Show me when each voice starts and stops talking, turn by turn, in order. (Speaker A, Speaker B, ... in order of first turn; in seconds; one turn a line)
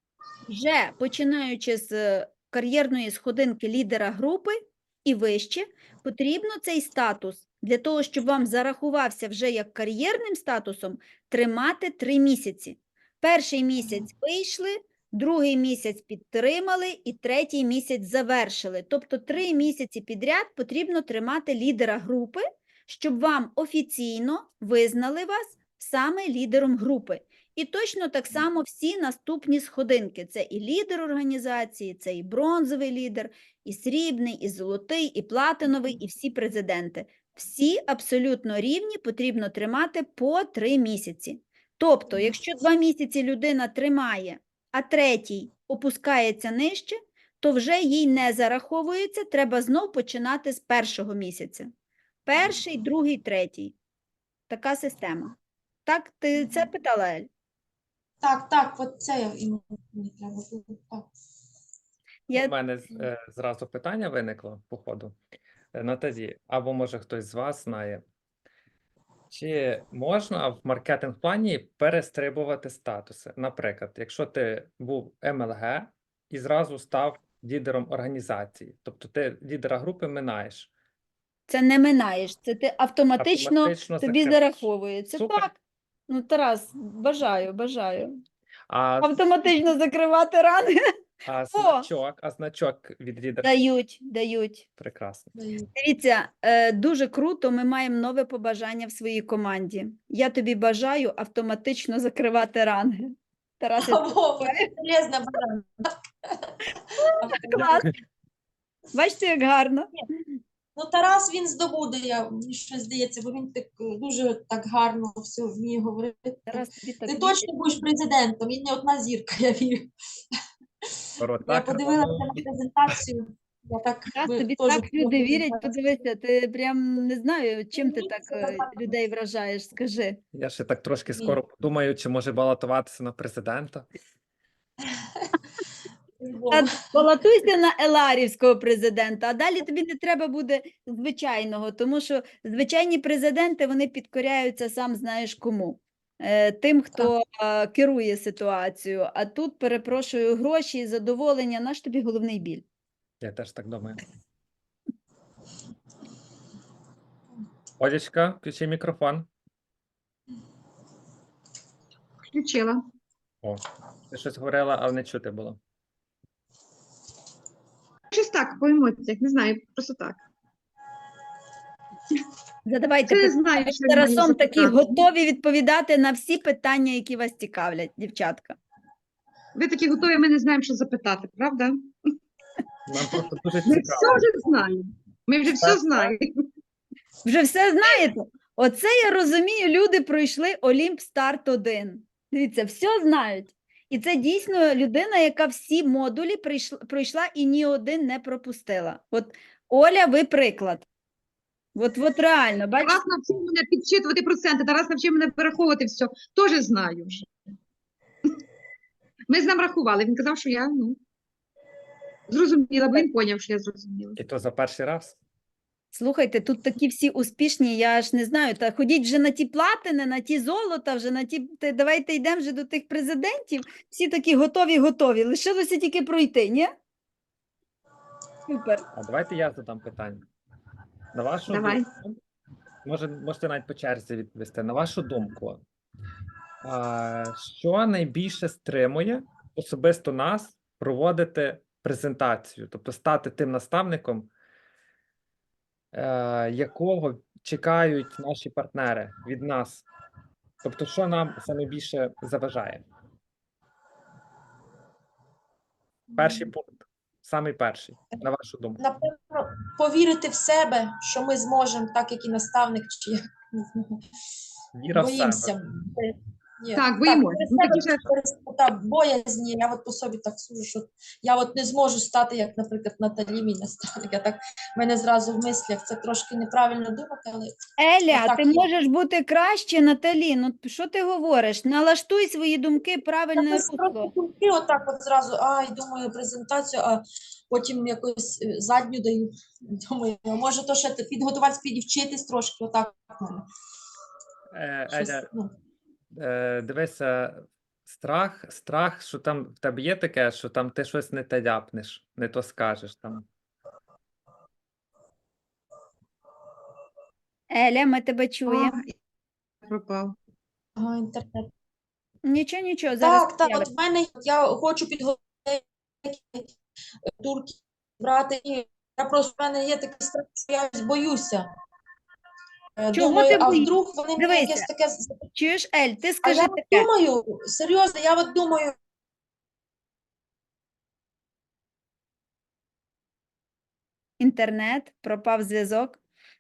Speaker A: 0.5-51.7
Speaker A: 52.2-53.8
Speaker A: 54.5-57.3
Speaker B: 58.2-61.1
Speaker A: 62.3-62.5
Speaker C: 62.3-65.2
Speaker C: 65.7-68.0
Speaker C: 69.3-80.7
Speaker A: 81.5-88.2
Speaker C: 83.2-85.5
Speaker C: 88.7-89.1
Speaker A: 89.0-90.8
Speaker C: 91.2-93.5
Speaker A: 91.5-91.9
Speaker A: 93.4-94.7
Speaker C: 94.8-95.3
Speaker B: 95.3-95.7
Speaker A: 95.8-104.7
Speaker B: 103.8-105.9
Speaker A: 107.0-107.9
Speaker B: 107.0-107.8
Speaker C: 107.5-107.9
Speaker A: 108.9-109.9
Speaker B: 110.7-119.9
Speaker A: 116.5-117.5
Speaker B: 121.0-125.8
Speaker C: 121.2-122.4
Speaker A: 124.2-130.2
Speaker B: 127.8-128.9
Speaker C: 130.3-133.9
Speaker B: 131.1-131.4
Speaker B: 136.2-136.8
Speaker A: 136.5-152.6
Speaker C: 153.2-154.0
Speaker C: 157.8-159.3
Speaker D: 162.3-162.8
Speaker C: 163.4-165.6
Speaker D: 168.1-170.2
Speaker A: 172.7-178.6
Speaker D: 173.1-174.9
Speaker D: 179.5-181.9
Speaker C: 182.9-184.2
Speaker D: 183.6-186.3
Speaker C: 185.6-186.1
Speaker A: 187.2-200.8
Speaker A: 201.7-203.0
Speaker D: 202.8-207.3
Speaker D: 209.3-211.0
Speaker D: 212.3-214.2
Speaker C: 214.2-215.2
Speaker A: 215.9-226.7
Speaker A: 228.5-228.8
Speaker C: 228.9-230.2
Speaker C: 231.1-232.2
Speaker D: 231.5-231.9
Speaker C: 232.8-235.6
Speaker C: 236.6-244.3
Speaker C: 245.9-249.8
Speaker C: 250.6-252.8
Speaker B: 256.1-256.5
Speaker C: 256.2-258.8
Speaker B: 258.8-264.0
Speaker C: 264.7-265.5
Speaker B: 264.9-277.5
Speaker D: 266.7-268.0
Speaker A: 277.8-284.1
Speaker B: 278.1-278.6
Speaker B: 283.4-293.4
Speaker C: 294.5-295.3
Speaker B: 294.9-295.5
Speaker C: 296.1-303.2
Speaker A: 307.5-308.8
Speaker D: 308.5-308.9
Speaker D: 309.6-310.1
Speaker B: 310.8-311.5
Speaker A: 312.2-313.7
Speaker B: 313.0-316.5
Speaker B: 317.2-321.4
Speaker B: 322.8-325.2
Speaker A: 322.9-324.7
Speaker A: 325.3-326.9
Speaker B: 326.2-328.7
Speaker A: 334.2-336.0